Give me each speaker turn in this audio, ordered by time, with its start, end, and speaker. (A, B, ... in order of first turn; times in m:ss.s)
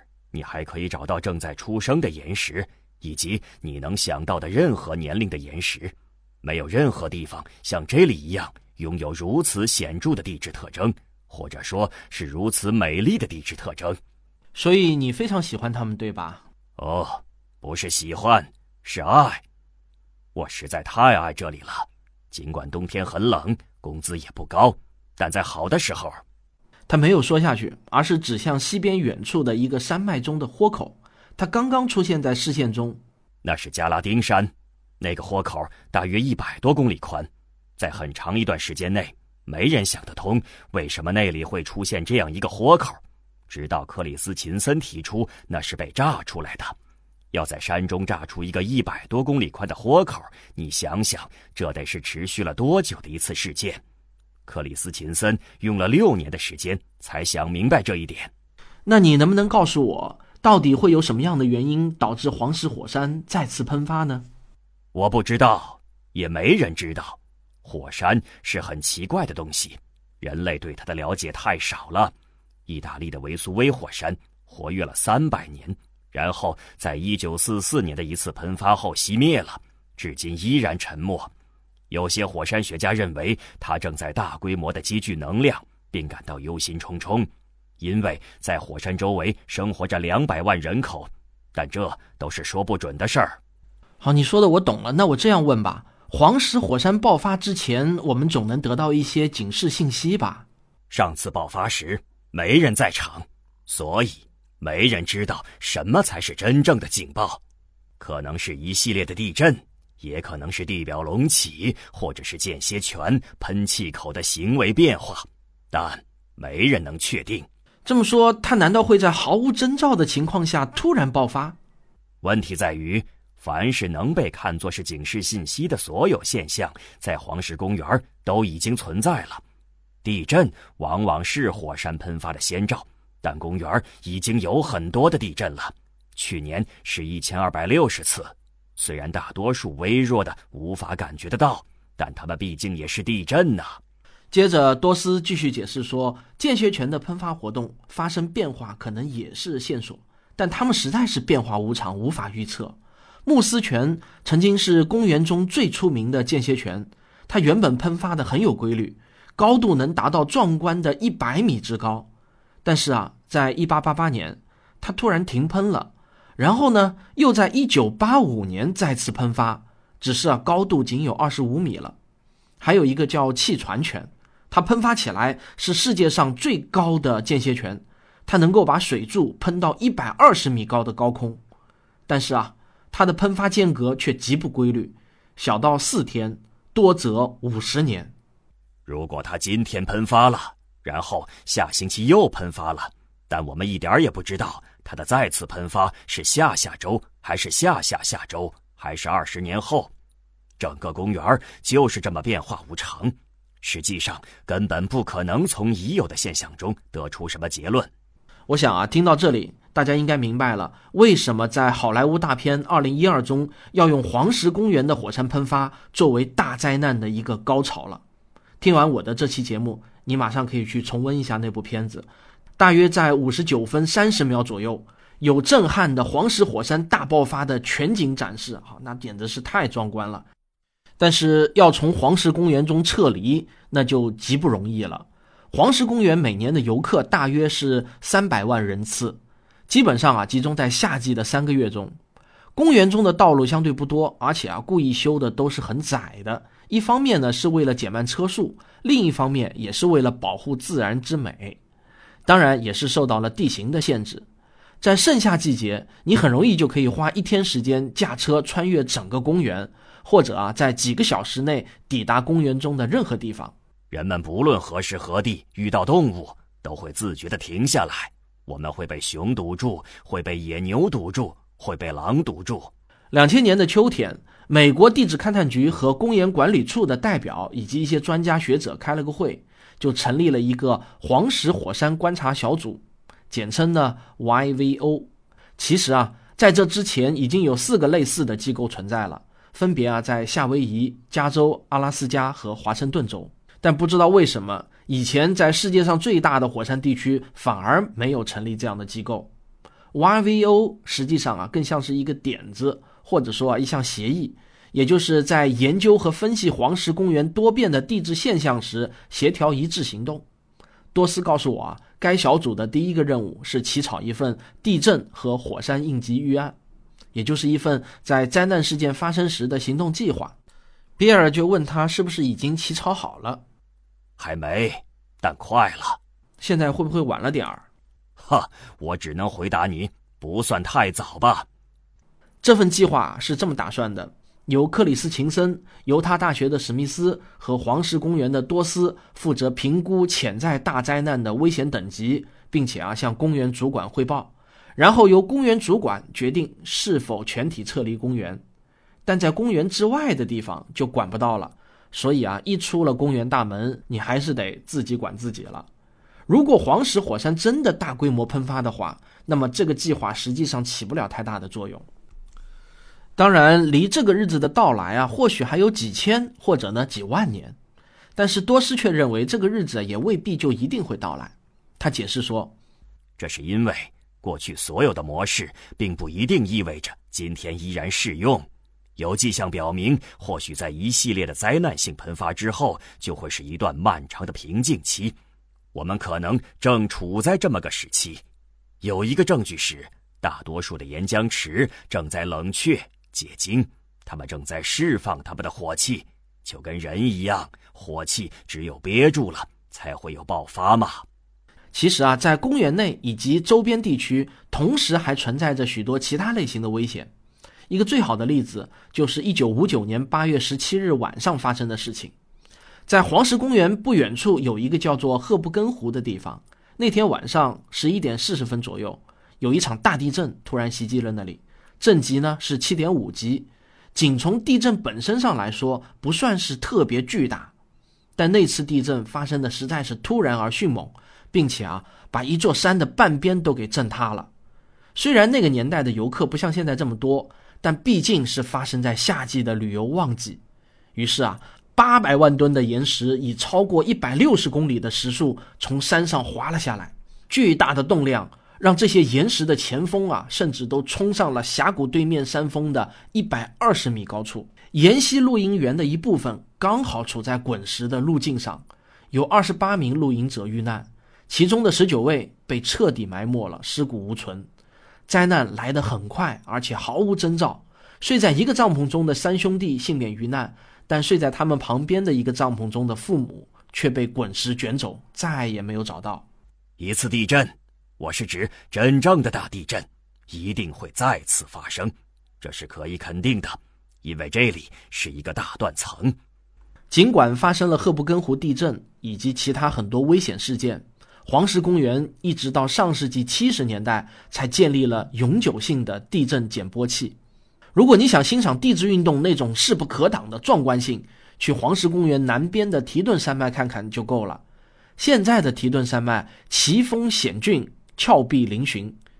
0:00.3-0:14.0 A
0:14.6-0:16.5 B
0:16.8-0:19.4 A
0:20.4-0:26.2 A
0:26.9-0:33.0 B
0:33.4-0:46.7 A
0:47.3-0:53.8 A
0:54.5-0:58.3 A
0:58.9-1:04.3 B
1:04.9-1:12.1 A
1:12.7-1:21.3 A
1:21.9-1:27.3 A
1:27.8-1:33.4 A
1:34.0-1:40.5 B
1:40.9-1:47.4 A
1:48.0-1:57.5 A
1:57.8-2:01.6 B
2:02.2-2:09.4 A
2:10.0-2:23.8 A
2:24.3-2:42.1 B
2:42.6-2:52.0 B
2:52.6-3:01.4 B
3:02.1-3:08.1 B
3:08.9-3:19.9 A
3:20.6-3:27.9 A
3:28.5-3:38.0 B
3:38.6-3:50.3 B
3:51.0-4:02.0 B
4:02.6-4:11.6 B
4:12.3-4:14.3 B
4:14.8-4:23.5 B
4:23.9-4:32.7 A
4:33.1-4:59.3 B
4:59.9-5:10.2 B
5:10.9-5:16.6 B
5:17.1-5:20.4 B
5:21.0-5:23.4 B
5:24.2-5:26.0 A
5:26.4-5:27.6 B
5:28.2-5:31.5 A
5:32.4-5:48.4 B
5:49.1-5:55.7 B
5:56.3-6:01.9 B
6:03.2-6:07.6 B
6:08.2-6:12.6 B
6:13.2-6:25.2 A
6:25.7-6:28.2 A
6:28.8-6:41.1 A
6:41.7-6:47.1 B
6:47.7-6:52.1 B
6:52.9-7:07.5 B
7:08.2-7:14.3 B
7:15.0-7:20.4 B
7:21.0-7:44.5 B
7:45.1-7:56.2 B
7:56.8-8:06.2 A
8:06.9-8:17.2 B
8:17.8-8:24.4 B
8:25.0-8:29.0 B